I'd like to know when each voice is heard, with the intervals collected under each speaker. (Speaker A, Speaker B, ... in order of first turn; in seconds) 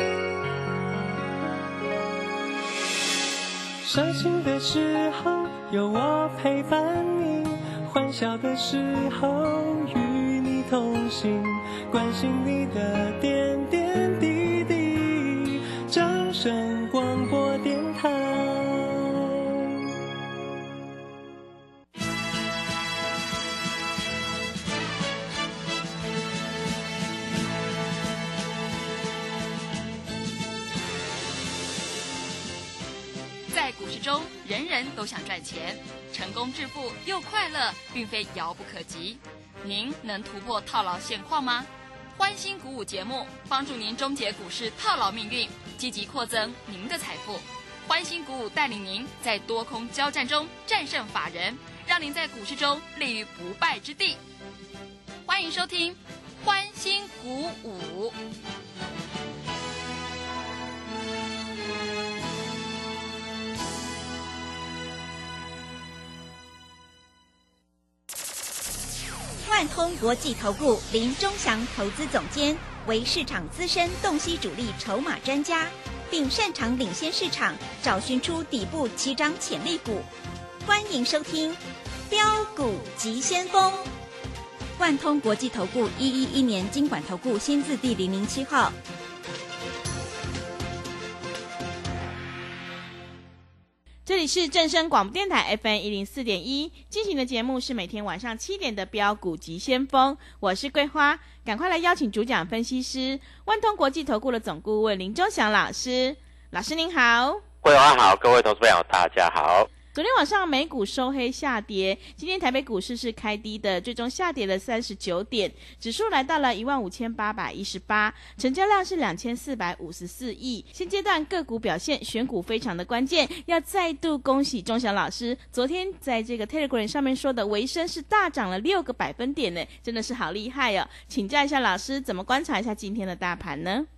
Speaker A: 3.8-19.9
Speaker B: 33.5-54.2, 55.2-58.1
Speaker C: 69.4-80.1, 80.6-83.9, 84.8-88.8
Speaker D: 94.0-107.4, 109.9-133.9
Speaker E: 107.6-109.7